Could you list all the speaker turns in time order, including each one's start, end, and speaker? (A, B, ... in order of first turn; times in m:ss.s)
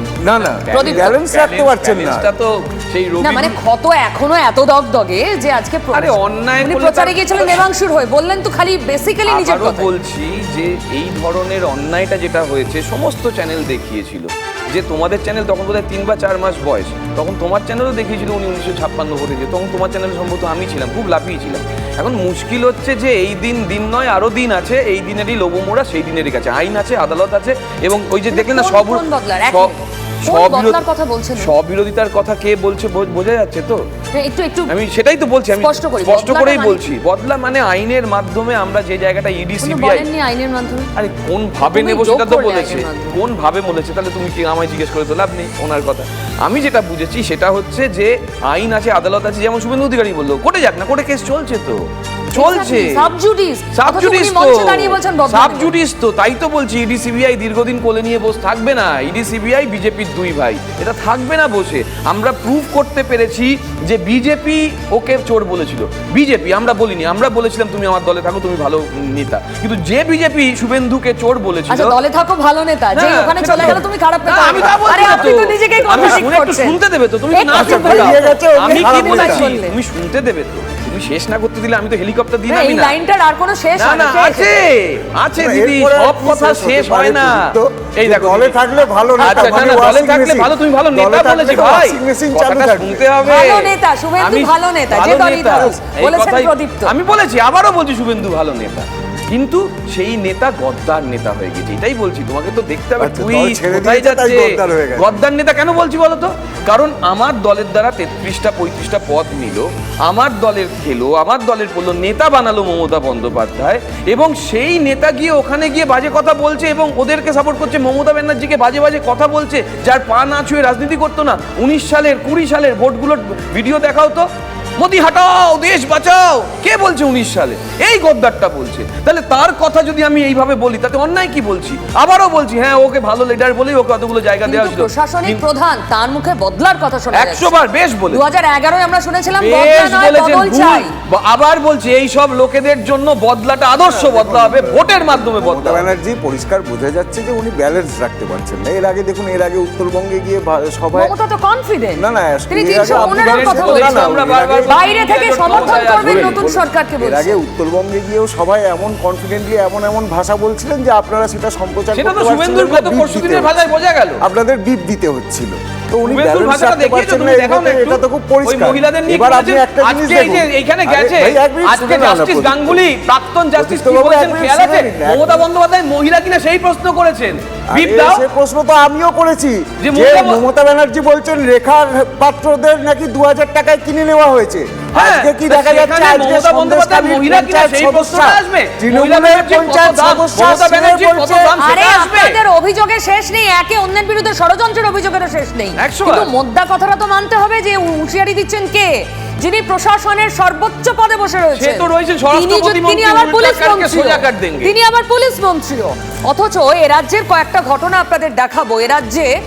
0:00.2-0:02.3 A
0:00.4-0:03.6 B
0:00.7-0:01.1 C
0:03.2-0:09.9 C
0:05.9-0:07.6 B
0:09.2-0:29.7 B
0:28.3-0:31.5 C
0:30.3-0:30.9 B
0:31.4-0:33.8 B
0:34.1-0:34.7 C
0:34.7-0:40.1 B
0:35.6-0:36.9 C
0:39.6-0:40.9 C
0:41.0-0:51.8 B
0:41.6-0:43.1 C
0:52.3-0:53.0 B
0:52.4-0:55.7 C
0:53.8-1:12.0 B
1:11.7-1:16.8 C
1:12.9-1:23.0 B
1:17.3-1:19.7 C
1:17.5-1:19.5 A
1:22.5-1:24.6 C
1:23.8-1:28.6 B
1:25.4-1:33.1 A
1:29.2-2:04.2 B
1:33.2-1:36.9 C
1:43.0-1:45.2 A
2:04.8-2:15.4 B
2:14.4-2:17.5 C
2:17.1-2:18.2 B
2:18.1-2:20.9 C
2:19.4-2:25.9 B
2:23.8-2:31.1 A
2:30.9-2:37.4 C
2:32.0-2:34.8 A
2:32.9-2:36.4 B
2:35.4-2:43.6 A
2:41.9-2:44.2 B
2:44.2-2:52.9 A
2:46.0-2:58.2 B
2:53.6-2:55.4 A
2:57.7-3:11.4 A
2:59.8-3:00.4 B
3:04.9-3:12.4 B
3:11.6-3:29.3 C
3:15.8-3:16.3 B
3:21.5-3:24.7 B